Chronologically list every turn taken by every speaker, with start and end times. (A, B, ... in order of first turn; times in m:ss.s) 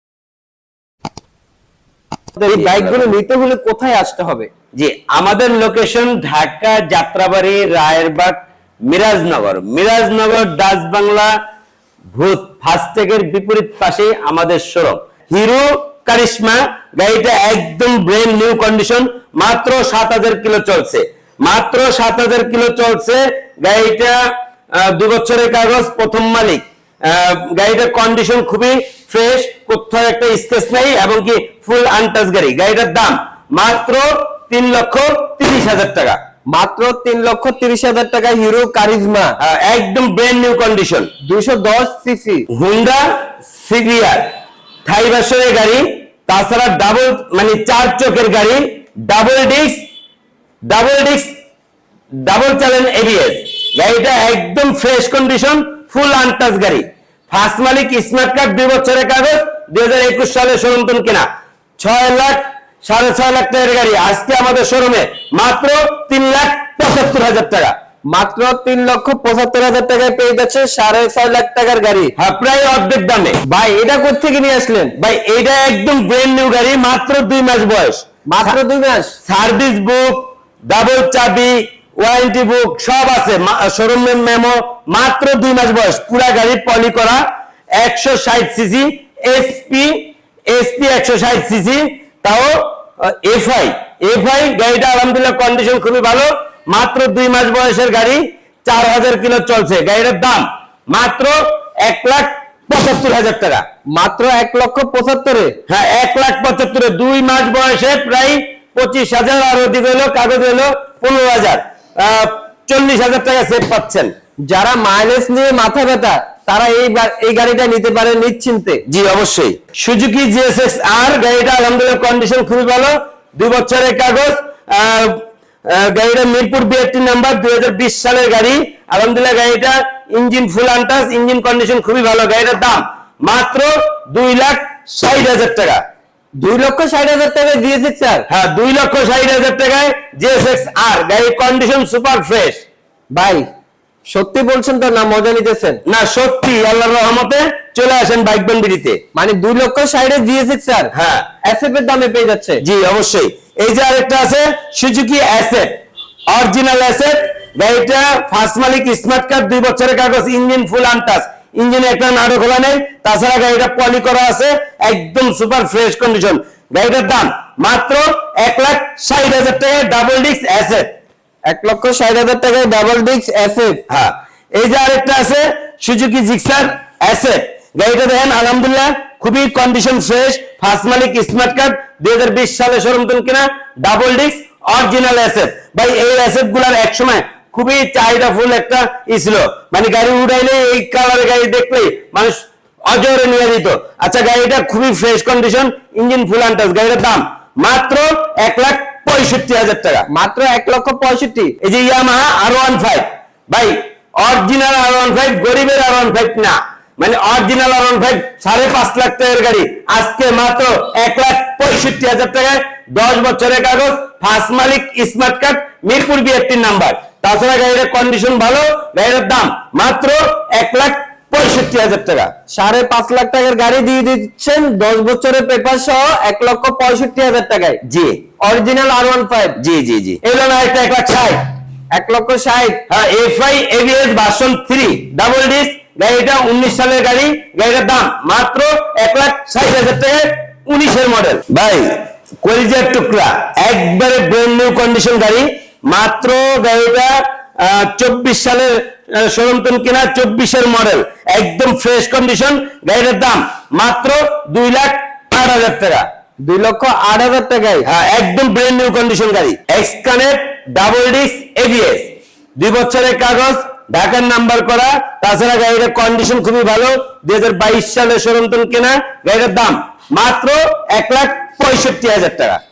0:02.4-0:04.5 A
0:02.5-0:03.1 B
0:04.8-0:11.4 B
0:12.1-0:24.2 B
0:24.7-0:36.2 B
0:36.5-0:39.3 A
0:39.4-0:41.1 B
0:41.2-0:42.5 A
0:42.5-0:44.3 B
0:44.9-0:49.8 B
0:50.6-0:51.4 B
0:52.1-1:01.3 B
1:01.8-1:07.7 B
1:08.1-1:12.1 A
1:12.2-1:13.4 B
1:13.5-1:14.9 A
1:15.0-1:18.6 B
1:18.3-1:19.2 A
1:19.2-1:27.2 B
1:27.8-1:43.6 B
1:44.0-1:45.6 A
1:45.7-1:54.1 B
1:54.4-1:58.8 A
1:58.9-2:15.8 B
2:16.4-2:18.2 A
2:18.3-2:22.6 B
2:23.1-2:23.5 A
2:24.1-2:25.8 A
2:25.9-2:29.0 B
2:29.2-2:30.9 A
2:30.9-2:31.3 B
2:31.4-2:32.6 A
2:32.6-2:35.7 B
2:36.3-2:50.9 B
2:51.5-2:53.8 A
2:53.9-3:20.1 B
3:20.1-3:21.6 A
3:21.6-3:42.3 B
3:42.5-3:47.8 A
3:47.8-3:48.2 B
3:48.4-3:49.6 A
3:49.6-3:51.4 B
3:51.9-3:52.8 A
3:52.9-4:16.0 B
4:16.4-4:17.9 A
4:17.8-4:32.6 B